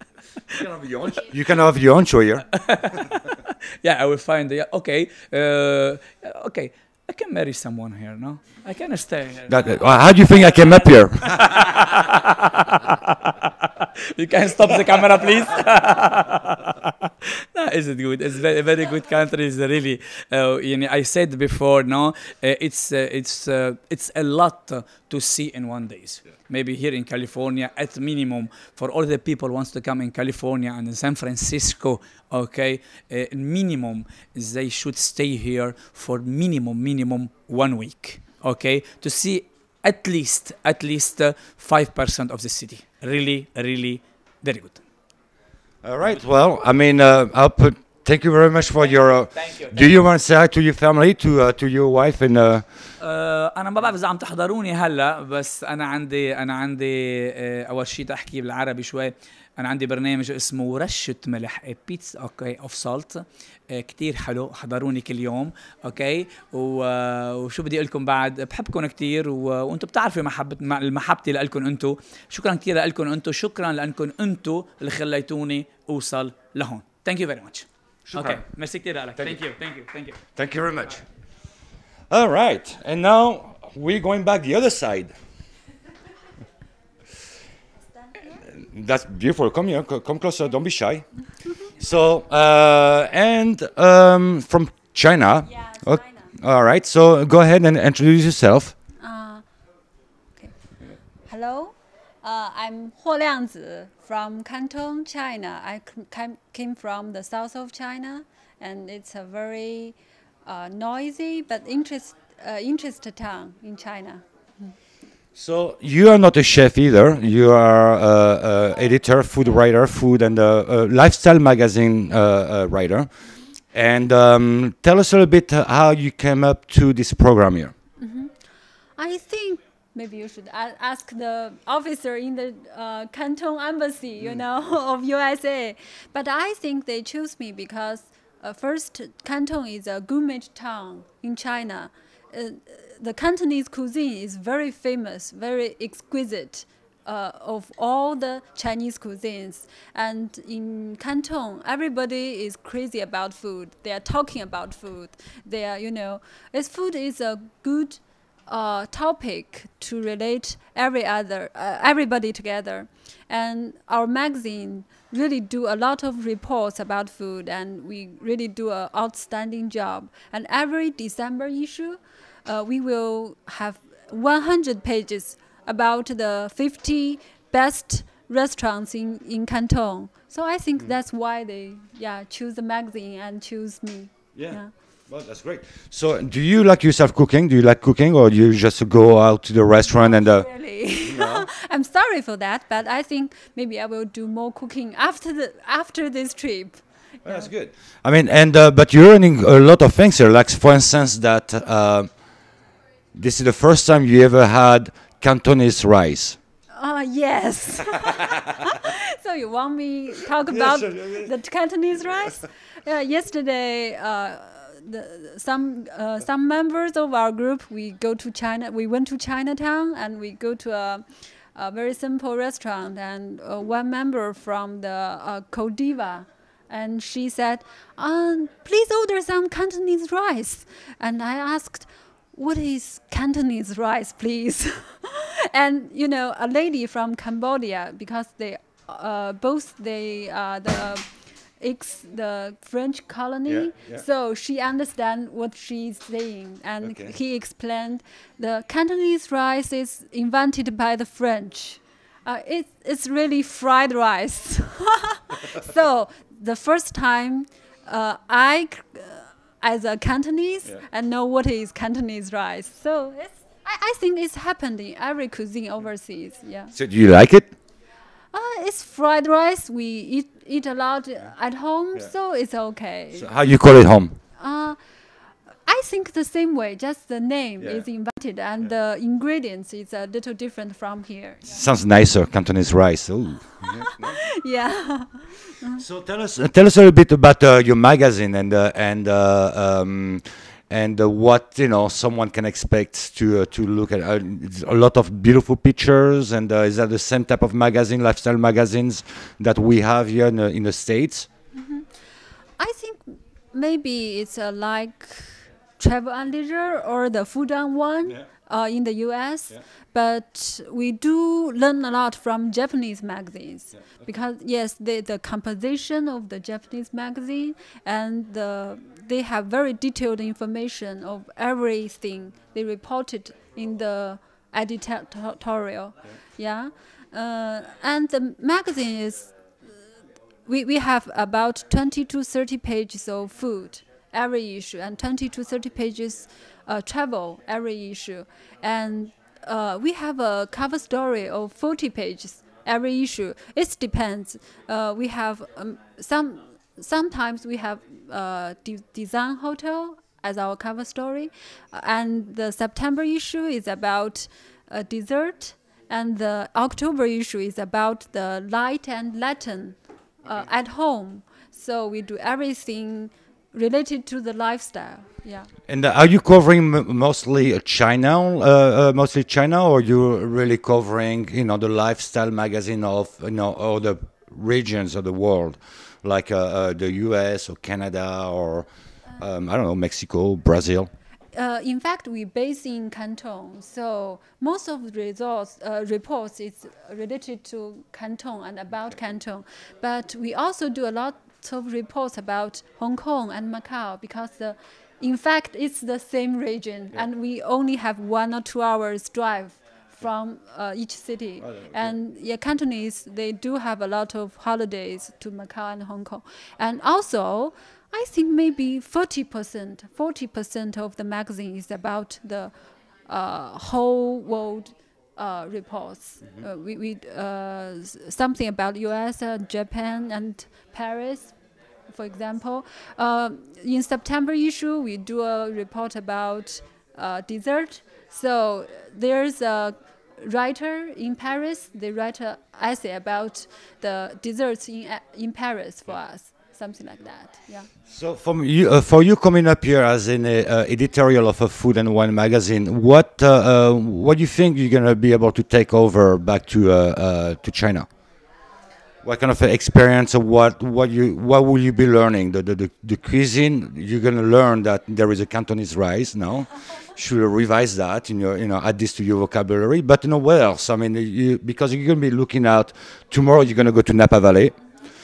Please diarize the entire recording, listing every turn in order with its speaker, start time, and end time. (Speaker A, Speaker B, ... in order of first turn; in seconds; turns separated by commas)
Speaker A: 0.5-2.5, Speaker B: 2.5-16.9, Speaker A: 9.5-11.6, Speaker B: 17.5-44.8, Speaker A: 45.8-52.6, Speaker B: 48.8-49.9, Speaker B: 53.0-80.2, Speaker A: 78.0-78.4, Speaker A: 80.3-81.0, Speaker A: 82.1-85.1, Speaker A: 88.5-91.1, Speaker A: 91.8-98.7, Speaker C: 95.6-96.2, Speaker C: 99.0-99.4, Speaker C: 101.2-114.7, Speaker A: 115.3-123.1, Speaker A: 123.7-127.7, Speaker C: 128.0-128.3, Speaker C: 129.0-184.7, Speaker A: 184.3-190.5, Speaker C: 189.8-197.5, Speaker A: 191.0-191.5, Speaker A: 197.2-202.1, Speaker A: 203.1-206.4, Speaker C: 206.7-241.1, Speaker A: 210.4-211.3, Speaker C: 241.6-266.7, Speaker A: 243.5-244.0, Speaker A: 246.8-247.1, Speaker A: 266.7-267.5, Speaker C: 268.3-273.3, Speaker A: 273.1-274.2, Speaker C: 274.4-274.8, Speaker C: 275.7-281.4, Speaker A: 277.6-277.8, Speaker A: 281.4-284.2, Speaker C: 283.8-285.8, Speaker A: 285.8-301.3, Speaker C: 301.5-301.9, Speaker C: 302.6-329.3, Speaker A: 313.7-314.1, Speaker C: 330.4-365.5, Speaker A: 365.7-378.6, Speaker A: 379.2-380.9, Speaker C: 381.3-412.5, Speaker A: 401.4-401.9, Speaker C: 413.1-421.3, Speaker C: 421.9-437.7, Speaker A: 437.9-447.9, Speaker A: 449.0-464.5